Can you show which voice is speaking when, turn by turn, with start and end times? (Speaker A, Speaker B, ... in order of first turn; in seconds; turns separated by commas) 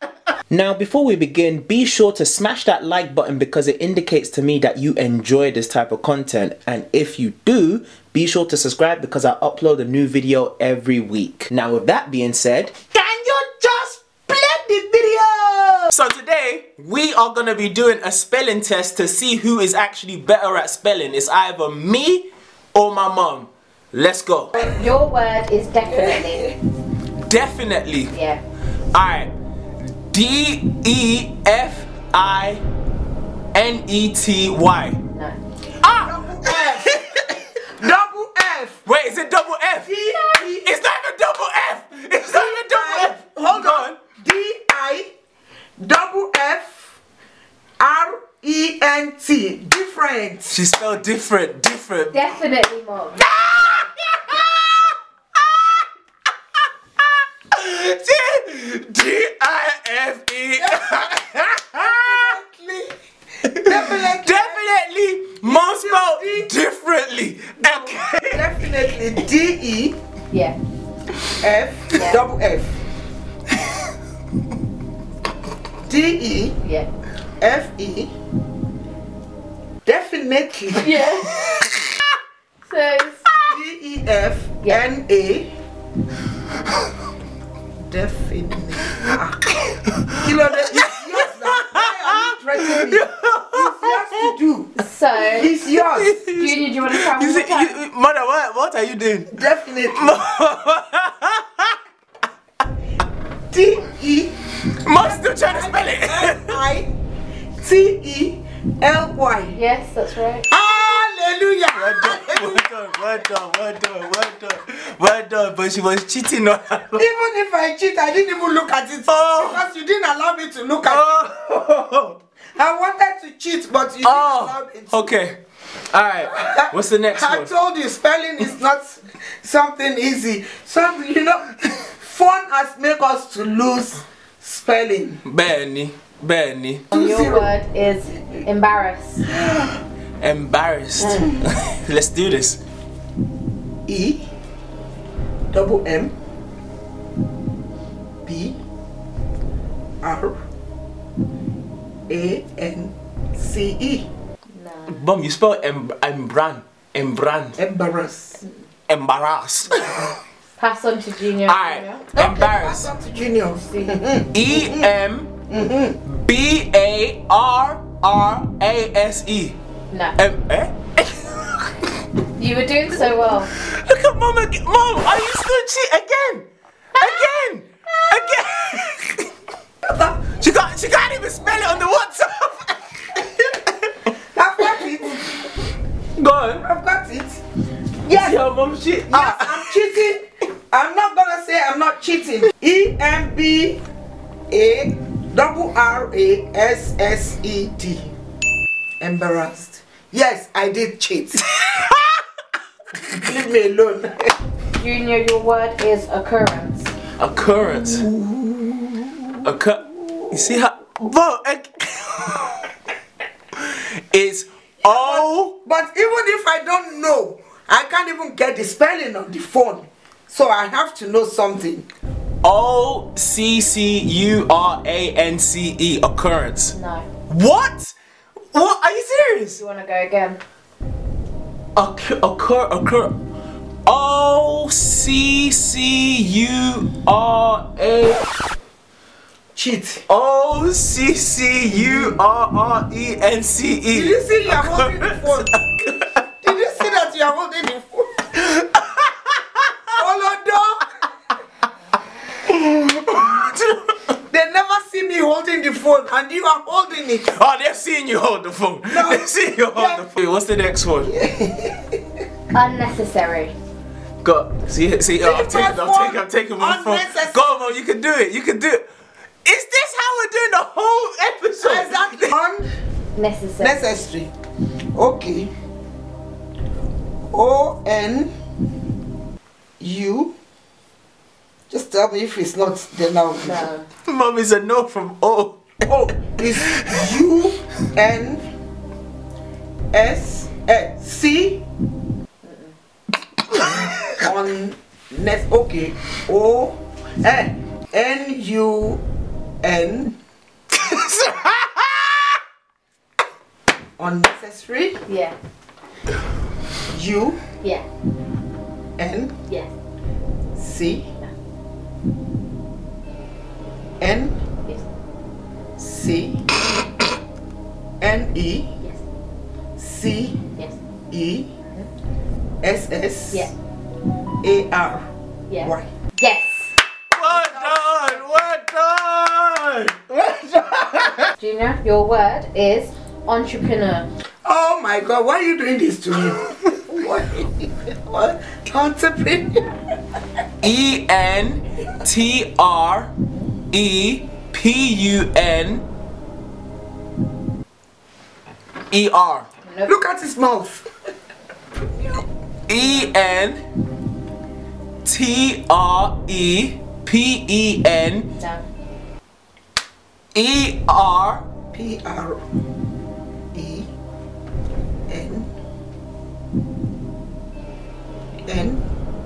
Speaker A: 0.5-12.7, Speaker B: 12.9-15.9, Speaker A: 15.9-24.5, Speaker C: 24.5-26.6, Speaker B: 25.9-26.5, Speaker A: 27.2-28.1, Speaker C: 28.1-28.4, Speaker A: 28.9-32.6, Speaker A: 33.5-35.0, Speaker C: 35.1-35.4, Speaker A: 35.8-37.0, Speaker B: 36.0-38.8, Speaker A: 38.9-44.0, Speaker B: 39.8-40.7, Speaker B: 42.2-45.1, Speaker B: 45.8-46.9, Speaker B: 47.8-50.5, Speaker A: 50.5-52.1, Speaker C: 52.1-53.3, Speaker A: 53.2-55.8, Speaker A: 57.5-62.4, Speaker B: 60.5-61.1, Speaker B: 61.7-62.9, Speaker A: 63.4-68.5, Speaker B: 63.5-64.6, Speaker B: 65.4-66.5, Speaker B: 68.2-70.0, Speaker C: 70.3-70.6, Speaker B: 71.4-72.7, Speaker C: 71.9-72.2, Speaker B: 75.8-76.6, Speaker C: 76.6-76.9, Speaker B: 77.4-78.1, Speaker B: 79.8-81.0, Speaker C: 80.8-81.4, Speaker A: 81.3-81.9, Speaker C: 82.6-83.2, Speaker B: 83.5-85.5, Speaker B: 87.8-89.5, Speaker A: 89.9-94.3, Speaker B: 90.2-96.2, Speaker C: 94.8-95.5, Speaker A: 95.6-101.8, Speaker C: 96.3-97.8, Speaker B: 99.3-100.2, Speaker B: 103.5-104.3, Speaker A: 104.7-106.6, Speaker B: 105.0-106.9, Speaker B: 107.6-109.6, Speaker C: 109.5-110.5, Speaker B: 110.5-112.6, Speaker A: 111.7-117.0, Speaker B: 116.9-121.1, Speaker A: 119.1-119.6, Speaker A: 120.8-122.2, Speaker B: 122.5-125.1, Speaker A: 124.0-125.4, Speaker A: 125.9-127.5, Speaker B: 126.3-135.2, Speaker A: 135.2-136.8, Speaker B: 136.9-137.5, Speaker C: 136.9-139.2, Speaker A: 140.2-142.6, Speaker B: 141.0-141.3, Speaker B: 143.9-144.2, Speaker B: 145.5-146.1, Speaker B: 148.2-148.6, Speaker B: 150.0-150.3, Speaker B: 152.1-154.1, Speaker C: 154.5-154.9, Speaker A: 154.9-157.6, Speaker B: 157.6-158.4, Speaker A: 158.9-160.1, Speaker C: 160.6-162.0, Speaker A: 161.4-162.9, Speaker B: 162.1-164.9, Speaker C: 163.6-164.0, Speaker A: 164.3-165.3, Speaker B: 165.5-166.0, Speaker A: 166.1-169.6, Speaker C: 169.9-170.2, Speaker A: 170.2-171.7, Speaker C: 172.3-173.5, Speaker A: 173.5-179.3, Speaker B: 179.8-180.2, Speaker A: 180.4-183.9, Speaker B: 184.1-185.4, Speaker A: 186.2-186.6, Speaker B: 186.6-187.4, Speaker B: 188.0-188.4, Speaker A: 188.1-189.8, Speaker B: 189.1-193.8, Speaker B: 194.5-198.1, Speaker B: 199.0-201.4, Speaker A: 201.6-201.9, Speaker B: 203.1-204.3, Speaker C: 204.8-206.9, Speaker A: 207.2-208.1, Speaker B: 207.6-209.5, Speaker A: 209.4-212.7, Speaker B: 210.1-210.6, Speaker A: 213.5-215.5, Speaker B: 214.8-221.9, Speaker A: 222.4-226.7, Speaker C: 226.7-227.1, Speaker A: 227.3-227.9, Speaker A: 228.5-229.6, Speaker C: 229.6-230.4, Speaker A: 231.8-233.2, Speaker A: 233.8-238.2, Speaker B: 239.5-240.0, Speaker A: 240.1-246.1, Speaker B: 241.7-242.2, Speaker B: 243.9-245.6, Speaker B: 246.4-248.3, Speaker A: 248.4-249.7, Speaker B: 249.9-250.9, Speaker A: 252.4-253.9, Speaker B: 254.3-257.3, Speaker A: 257.2-261.1, Speaker B: 258.8-260.0, Speaker B: 261.0-262.0, Speaker C: 262.5-263.5, Speaker A: 264.2-268.8, Speaker B: 265.2-267.5, Speaker A: 269.4-272.3, Speaker B: 271.6-272.7, Speaker C: 273.1-273.8, Speaker B: 273.6-274.3, Speaker B: 274.9-275.5, Speaker B: 277.3-278.3, Speaker B: 279.8-280.3, Speaker B: 281.7-283.7, Speaker C: 283.4-283.9, Speaker A: 284.1-287.2, Speaker B: 285.9-288.4, Speaker B: 289.9-291.6, Speaker C: 292.4-292.7, Speaker B: 294.2-299.0, Speaker B: 299.6-300.2, Speaker A: 300.8-302.3, Speaker B: 304.0-305.0, Speaker C: 305.1-305.4, Speaker B: 306.9-307.4, Speaker C: 307.6-307.9, Speaker B: 309.0-309.3, Speaker C: 309.5-309.7, Speaker B: 310.6-311.1, Speaker B: 314.0-314.4, Speaker B: 315.8-316.4, Speaker B: 318.0-318.7, Speaker B: 319.8-320.4, Speaker B: 321.1-321.5, Speaker B: 322.6-323.5, Speaker B: 324.4-325.0, Speaker C: 325.5-326.7, Speaker B: 325.6-325.9, Speaker A: 327.1-330.1, Speaker B: 327.3-327.8, Speaker B: 330.2-331.0, Speaker C: 331.4-334.1, Speaker B: 334.4-339.7, Speaker A: 340.6-343.1, Speaker A: 343.7-345.9, Speaker A: 348.9-349.4, Speaker C: 349.6-349.9, Speaker B: 349.8-350.9, Speaker B: 351.8-352.2, Speaker A: 352.7-353.6, Speaker A: 355.0-358.3, Speaker C: 358.4-358.6, Speaker A: 360.3-361.4, Speaker B: 361.7-362.4, Speaker B: 363.5-363.9, Speaker B: 365.1-365.5, Speaker B: 368.5-368.8